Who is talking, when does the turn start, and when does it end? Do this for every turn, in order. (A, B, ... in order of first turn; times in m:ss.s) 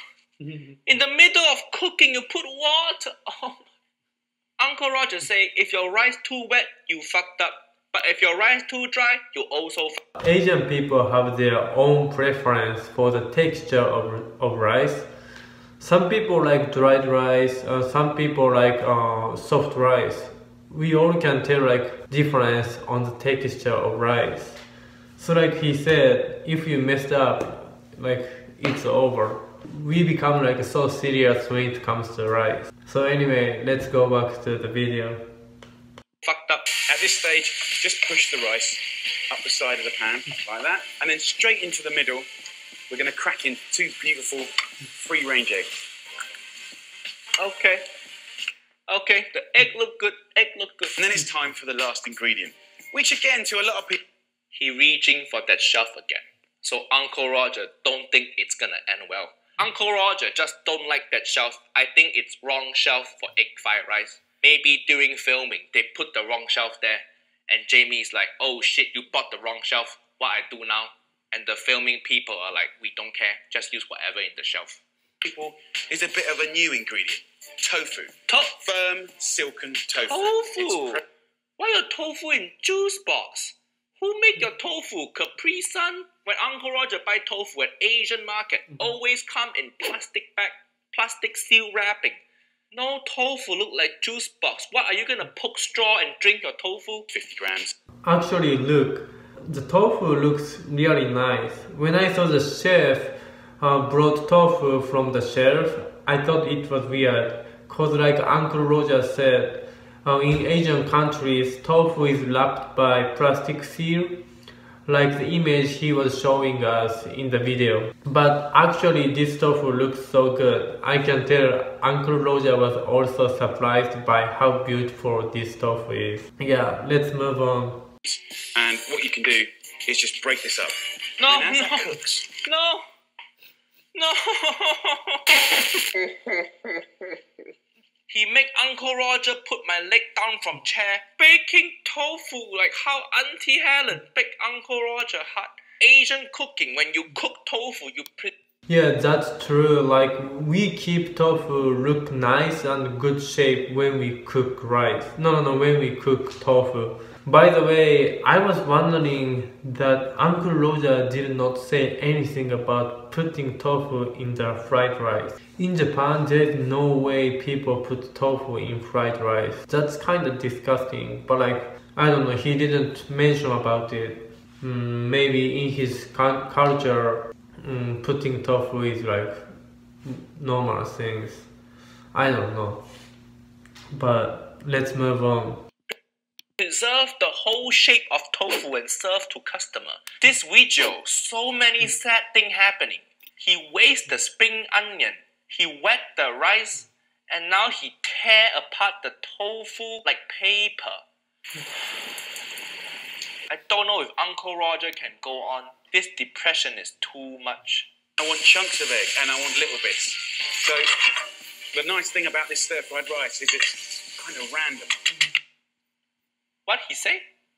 0:00.8-0:03.6 A
0:04.6-0:10.0 A
0:10.2-0:15.1 B
0:15.8-0:24.6 B
0:25.2-0:35.2 B
0:36.2-0:36.7 A
0:36.9-0:42.3 C
0:42.9-0:45.7 C
0:47.4-0:47.8 A
0:48.9-0:51.0 A
0:51.0-0:54.0 C
0:54.5-1:14.8 A
1:15.2-1:21.0 C
1:18.3-1:18.5 A
1:20.1-1:21.0 A
1:21.6-1:32.2 A
1:32.7-1:37.0 A
1:37.1-1:37.7 C
1:38.0-1:54.2 B
1:54.8-2:07.8 B
2:08.0-2:12.3 C
2:11.2-2:12.8 A
2:13.9-2:16.0 A
2:18.1-2:28.3 A
2:28.7-2:59.5 B
3:00.0-3:01.5 B
3:02.1-3:02.8 B
3:03.9-3:05.6 B
3:06.6-3:21.0 A
3:23.5-3:27.9 A
3:28.2-3:30.8 C
3:31.7-3:34.9 C
3:36.7-3:37.2 A